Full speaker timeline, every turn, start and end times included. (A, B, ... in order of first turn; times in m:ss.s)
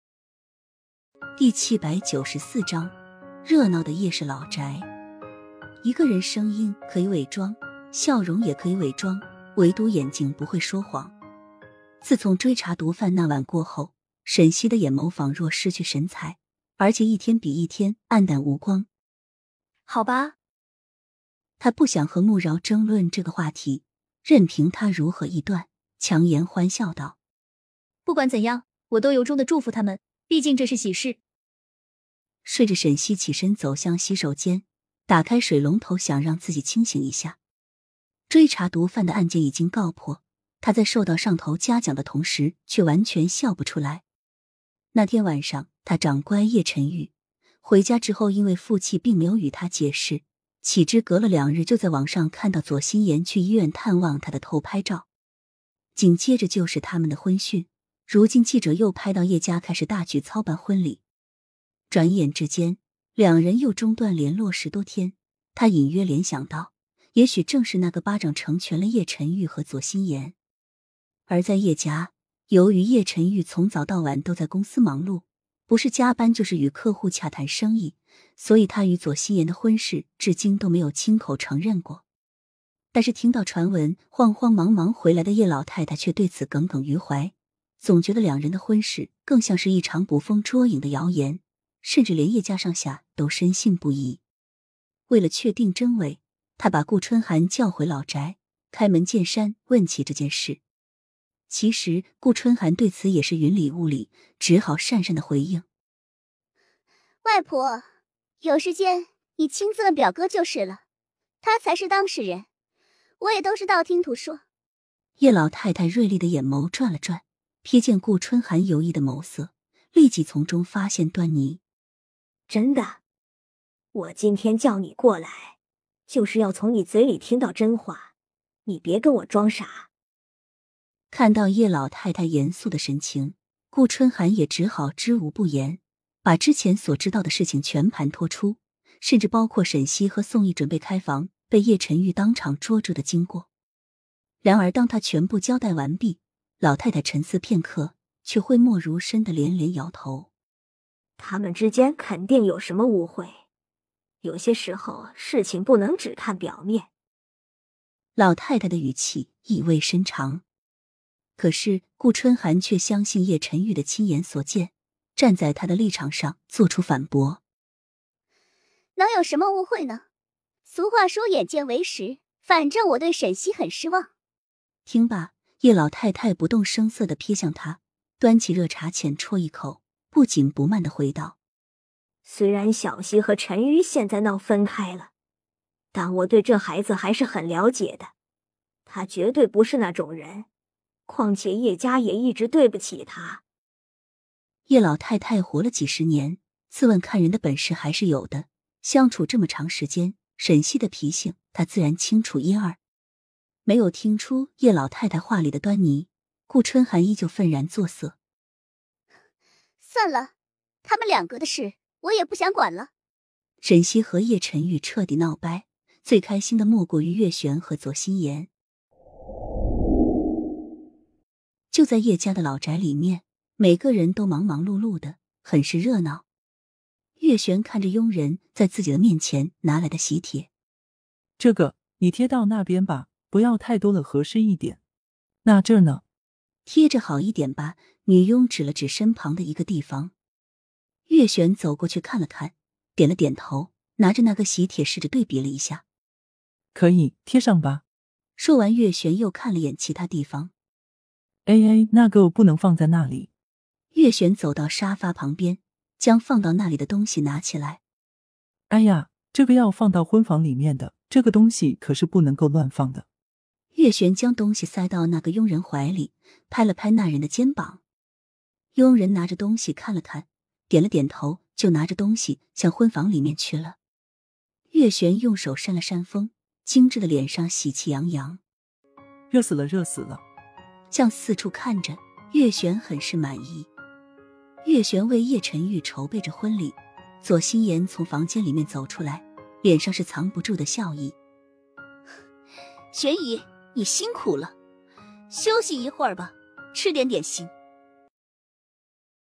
0:01.4-0:02.9 A
0:03.4-0:04.9 A
0:05.8-0:11.1 A
0:12.0-0:18.9 A
0:19.9-0:20.4 B
0:21.6-0:27.2 A
0:28.0-0:31.2 B
0:32.4-0:37.4 A
0:38.3-0:44.0 A
0:44.9-0:47.1 A
0:47.6-0:55.1 A
0:56.0-1:01.0 A
1:01.9-1:10.4 A
1:11.3-1:22.0 A
1:22.9-1:34.2 A
1:35.1-1:40.6 A
1:41.5-1:45.6 A
1:47.2-1:47.8 C
1:48.4-1:50.8 C
1:51.4-1:52.4 C
1:53.2-1:54.4 C
1:55.2-2:01.6 A
2:02.5-2:03.0 D
2:03.9-2:05.6 D
2:06.1-2:08.1 D
2:08.7-2:09.9 D
2:11.1-2:23.5 A
2:24.4-2:30.3 A
2:31.2-2:33.3 D
2:34.2-2:36.9 D
2:38.2-2:40.4 A
2:41.4-2:47.4 A
2:49.0-2:50.0 C
2:50.7-2:54.1 C
2:54.9-3:01.4 A
3:02.2-3:05.1 D
3:05.9-3:08.1 D
3:08.9-3:10.5 D
3:11.1-3:13.4 D
3:14.7-3:22.8 A
3:23.7-3:28.2 A
3:29.8-3:30.3 C
3:30.8-3:32.9 C
3:33.6-3:38.5 A
3:41.7-3:46.2 A
3:47.2-3:50.5 A
3:51.4-3:54.8 E
3:55.4-3:56.0 E
3:56.7-4:00.1 A
4:01.1-4:05.8 A
4:06.7-4:07.8 E
4:08.4-4:10.5 A
4:11.5-4:13.3 E
4:13.9-4:17.8 A
4:18.7-4:23.1 E
4:23.8-4:27.8 A
4:28.8-4:33.8 A
4:34.7-4:38.4 A
4:39.3-4:40.2 E
4:40.9-4:43.7 A
4:44.6-4:51.2 A
4:52.9-4:54.5 A
4:55.3-4:57.5 A